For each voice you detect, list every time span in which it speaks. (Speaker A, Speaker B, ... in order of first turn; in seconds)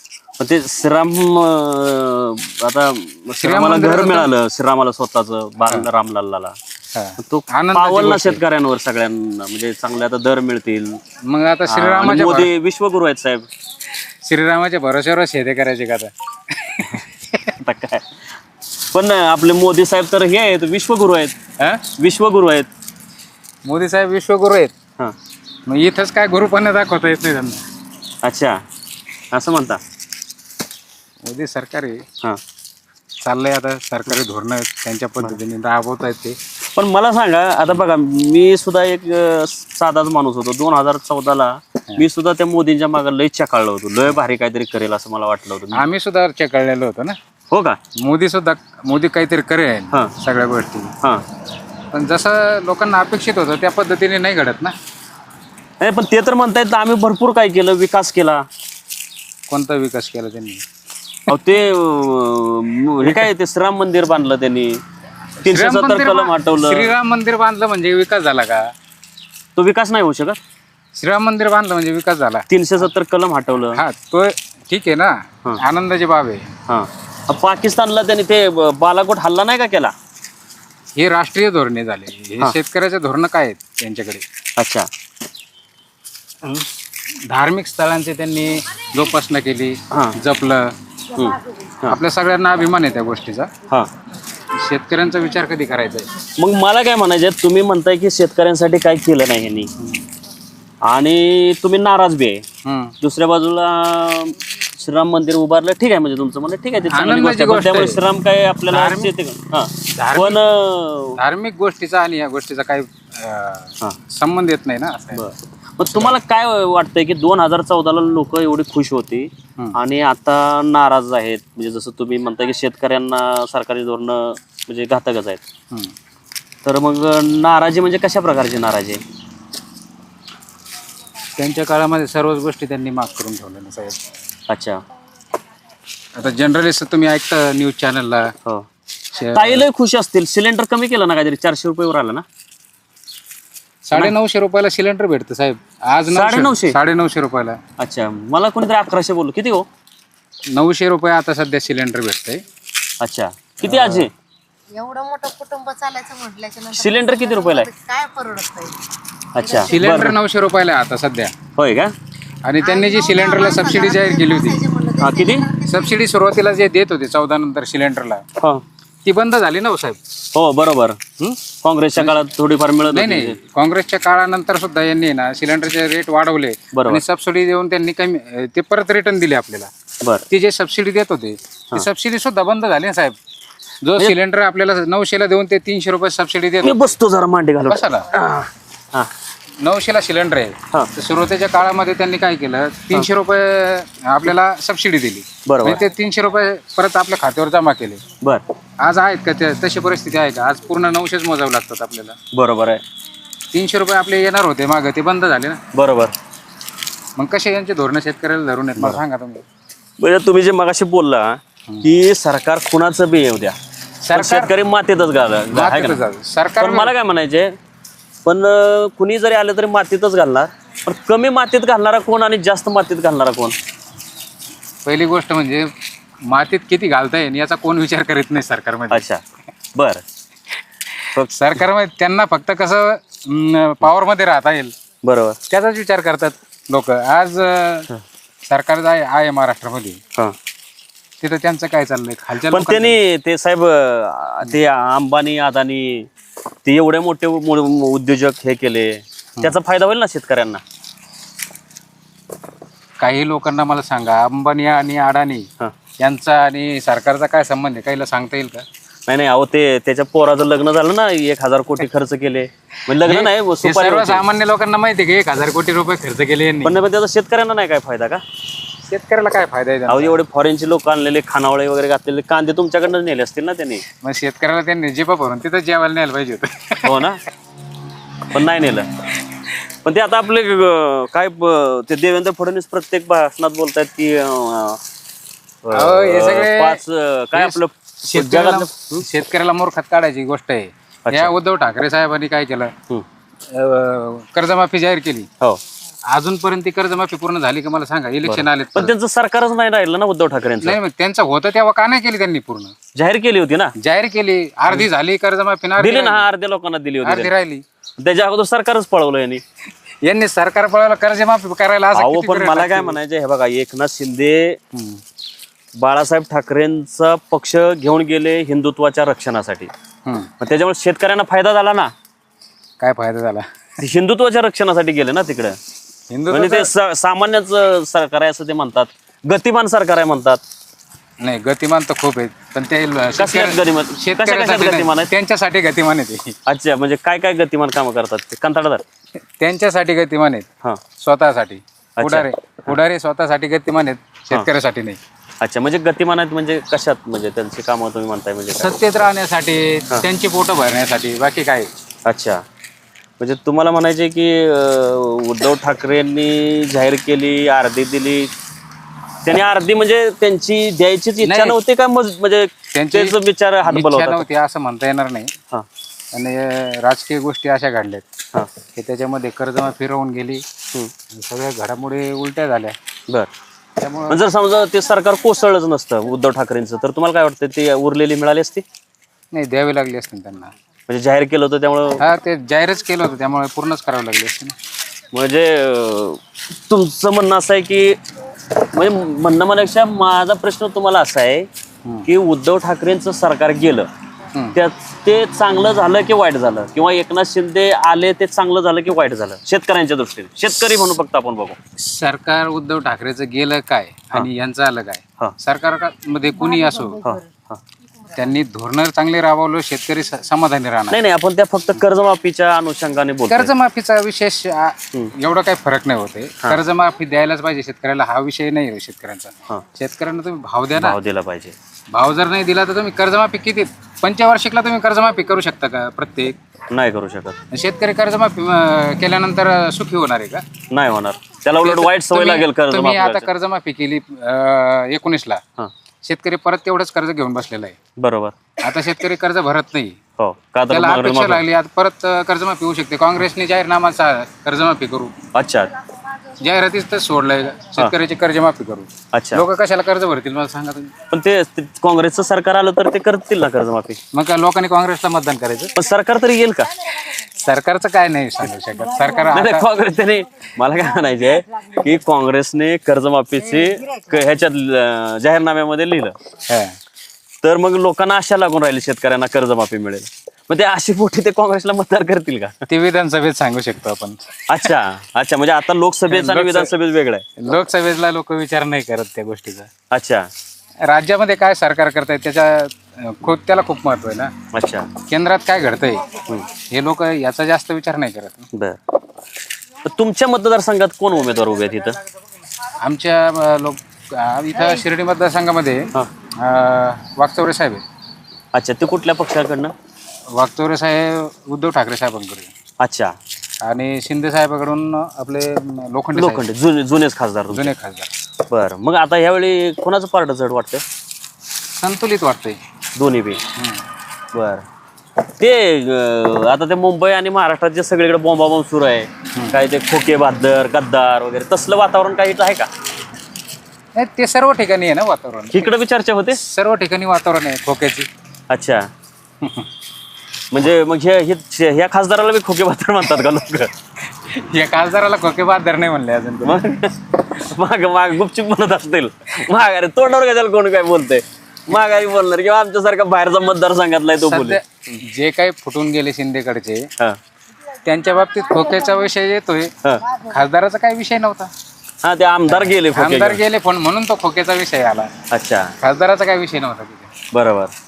Speaker A: 0.4-6.6, 7.2-11.0, 11.7-13.5, 17.6-18.2, 18.8-21.4, 22.0-22.7, 28.2-28.6, 29.3-29.8, 36.8-45.8, 47.5-47.8, 55.8-58.5, 61.3-64.8, 65.4-66.9, 69.6-70.4, 72.5-73.8, 76.7-79.9, 84.6-84.9, 89.9-90.2, 91.2-92.0, 96.4-99.7, 100.8-102.4, 103.0-111.2, 115.1-125.4, 126.6-129.0, 134.5-134.8, 139.3-142.2, 146.1-146.8, 147.8-149.7, 153.0-154.1, 156.7-157.7, 159.3-160.2, 161.6-161.9, 165.0-165.5, 168.4-168.6, 170.3-173.4, 176.7-177.0, 186.6-189.1, 195.5-195.8, 202.3-202.8, 205.7-206.1, 210.0-213.6, 214.1-216.0, 216.6-217.6, 218.2-223.6, 228.9-229.2, 229.8-230.0, 235.0-235.4, 242.4-246.1, 246.6-250.6, 259.1-264.2, 266.6-268.2, 269.9-273.8, 276.8-277.2, 278.3-278.9, 279.8-284.8, 285.6-289.0, 291.1-291.3, 298.2-300.8, 302.9-303.7, 305.8-307.3, 308.0-309.4, 311.9-314.6, 315.8-319.7, 320.4-321.9, 323.8-325.6, 326.3-330.4, 333.2-335.1, 336.5-338.8, 342.0-342.7, 345.4-348.8, 352.1-352.4, 353.2-358.3, 359.2-364.3, 374.1-378.6, 380.9-382.0, 385.1-388.0, 388.7-391.5, 392.1-393.9, 394.5-401.6, 407.0-407.6, 410.9-413.5, 420.8-421.6, 426.7-427.4, 430.7-433.3, 438.0-438.4, 440.2-441.4, 445.3-445.7, 449.1-449.4, 451.1-454.0, 455.8-456.7, 459.3-466.1, 467.4-472.6, 474.5-477.2, 479.9-480.3, 484.5-484.9, 488.5-488.8, 489.8-492.0, 498.5-499.8, 502.8-503.2, 506.1-507.7, 508.5-510.8, 513.0-513.4, 514.3-514.6, 515.4-522.7, 525.5-526.4, 528.5-528.9, 530.5-533.7, 536.4-544.6, 552.0-553.4, 555.3-555.7, 557.3-557.7
Speaker B: 3.4-4.3, 6.9-8.4, 11.2-12.5, 14.2-17.1, 23.7-24.7, 25.7-27.6, 31.2-32.0, 33.2-36.4, 45.7-47.2, 48.0-50.9, 51.9-54.8, 59.5-60.6, 65.4-68.7, 71.0-72.5, 73.7-76.5, 81.0-84.2, 86.4-86.7, 87.2-90.8, 91.8-93.5, 94.5-96.1, 99.8-100.0, 102.7-103.0, 106.9-108.0, 108.7-109.1, 110.0-110.4, 111.2-115.2, 131.4-134.1, 136.2-138.3, 139.1-139.7, 143.9-147.6, 150.5-152.4, 153.6-154.1, 159.7-161.3, 162.4-164.6, 165.7-168.2, 169.1-170.0, 172.9-179.7, 180.3-183.2, 183.8-187.0, 187.6-188.1, 189.6-198.0, 198.8-202.2, 203.5-205.6, 207.2-209.4, 214.0-214.5, 215.5-216.9, 224.8-225.7, 226.2-229.0, 231.0-234.8, 235.5-237.9, 238.5-240.0, 241.2-243.0, 253.0-255.5, 256.0-258.7, 263.0-266.8, 268.9-270.2, 274.0-277.0, 285.7-286.8, 287.4-292.7, 293.5-295.3, 296.1-298.9, 300.6-302.8, 303.8-306.3, 307.0-307.6, 310.0-313.0, 314.7-315.0, 320.1-320.3, 322.8-323.6, 326.1-326.7, 331.2-336.4, 339.4-345.0, 348.6-351.7, 361.2-361.6, 362.7-365.4, 366.1-368.1, 368.8-370.4, 371.1-372.8, 373.8-374.2, 379.3-380.5, 382.0-384.6, 401.8-407.0, 408.1-411.0, 413.3-421.0, 421.9-426.4, 427.5-430.5, 431.6-435.4, 436.0-437.8, 438.6-440.0, 440.7-445.1, 446.4-450.9, 454.1-455.8, 457.4-459.7, 466.5-466.8, 472.7-474.7, 476.1-476.7, 477.4-479.7, 480.8-484.3, 485.0-488.5, 492.7-497.8, 500.3-502.5, 503.6-506.4, 507.5-508.1, 511.8-512.6, 513.6-513.8, 524.0-525.7, 526.3-528.1, 529.4-529.7, 534.3-536.8, 544.2-546.9, 547.8-549.7, 550.3-551.5, 552.5-555.1, 555.8-557.1
Speaker C: 154.8-158.8, 159.4-159.8, 162.6-165.9, 406.4-407.2, 458.8-459.2, 460.8-461.9, 463.4-464.4